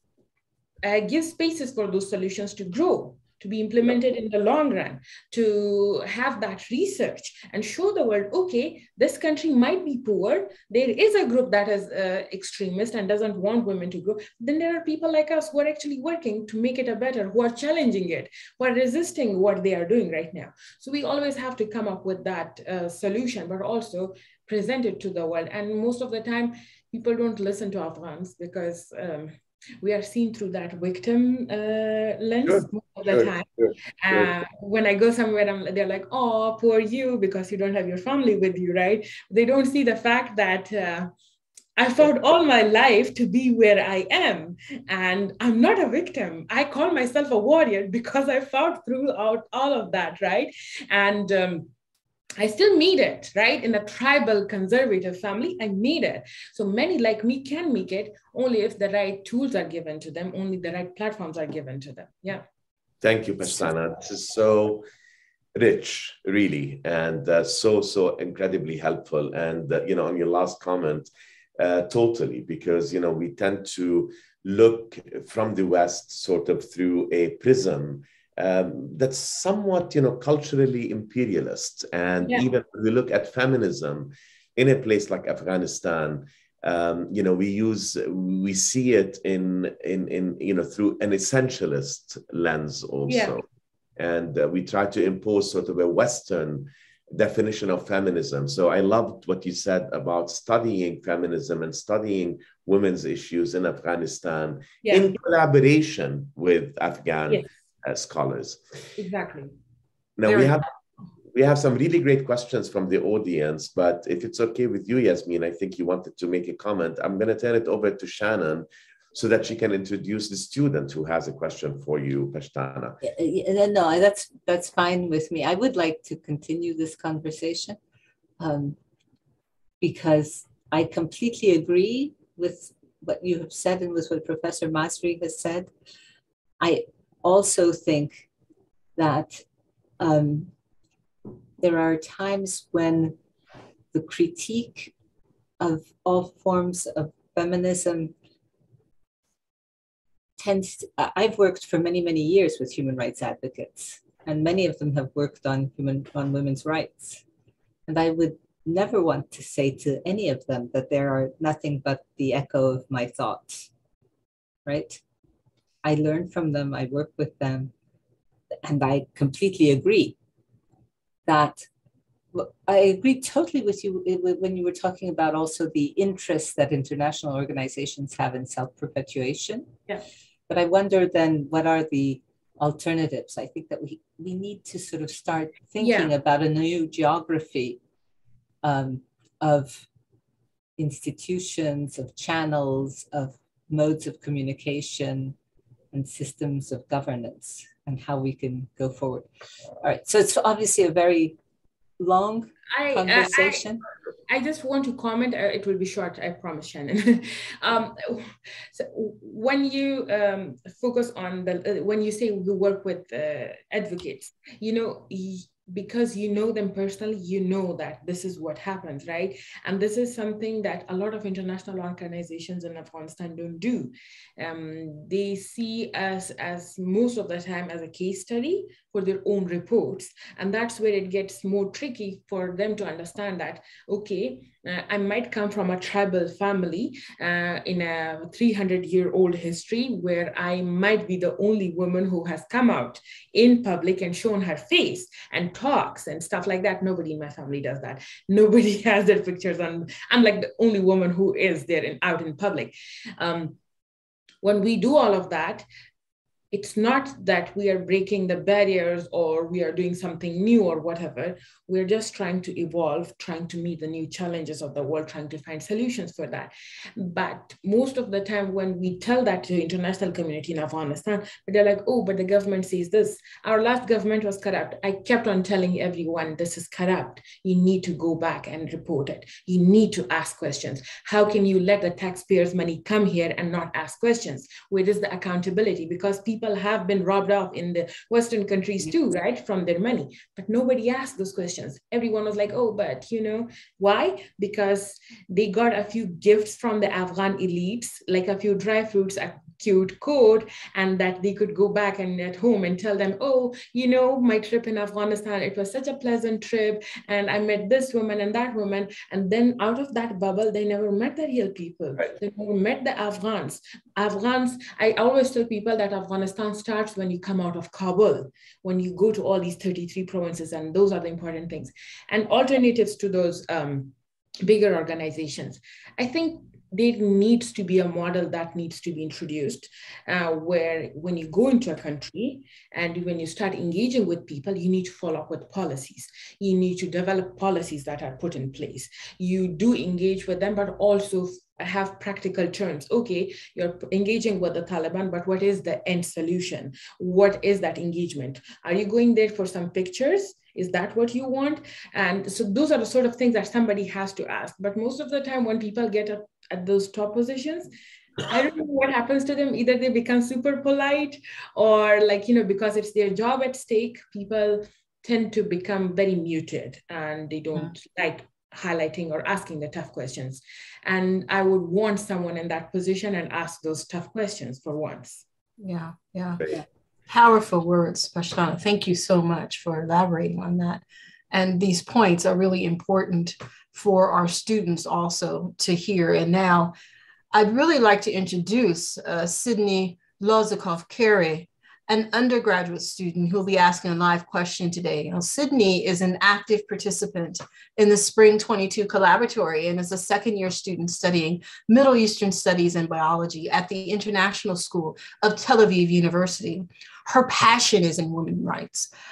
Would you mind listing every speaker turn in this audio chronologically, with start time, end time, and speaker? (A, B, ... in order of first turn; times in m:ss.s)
0:00.8-0:33.5 A
0:32.4-0:34.3 B
0:34.0-0:41.1 A
0:41.8-0:51.7 A
0:52.4-1:02.4 A
1:03.0-1:04.8 B
1:05.6-1:33.4 B
1:33.1-1:33.4 A
1:34.0-1:48.6 B
1:44.8-1:45.2 A
1:49.0-1:49.5 A
1:50.2-1:50.7 B
1:50.3-1:50.6 C
1:51.3-2:03.0 B
2:03.0-2:07.8 D
2:08.4-2:08.8 D
2:09.8-2:15.7 D
2:16.6-2:18.3 D
2:19.0-2:19.4 D
2:20.0-2:20.5 D
2:21.6-2:23.2 D
2:23.9-2:24.9 D
2:25.6-2:28.1 D
2:30.4-2:37.2 D
2:37.9-2:43.7 D
2:44.7-2:45.0 D
2:45.8-2:47.7 D
2:48.6-2:50.2 D
2:51.3-2:51.6 D
2:52.3-2:59.7 D
3:00.5-3:07.8 D
3:05.8-3:06.1 A
3:08.6-3:09.8 D
3:10.8-3:15.4 D
3:15.9-3:19.3 D
3:19.8-3:21.4 D
3:22.0-3:23.8 D
3:22.7-3:23.6 A
3:24.3-4:13.6 A
4:14.4-4:15.6 A
4:16.5-6:15.2 A
6:15.6-6:26.8 C
6:27.3-6:48.9 C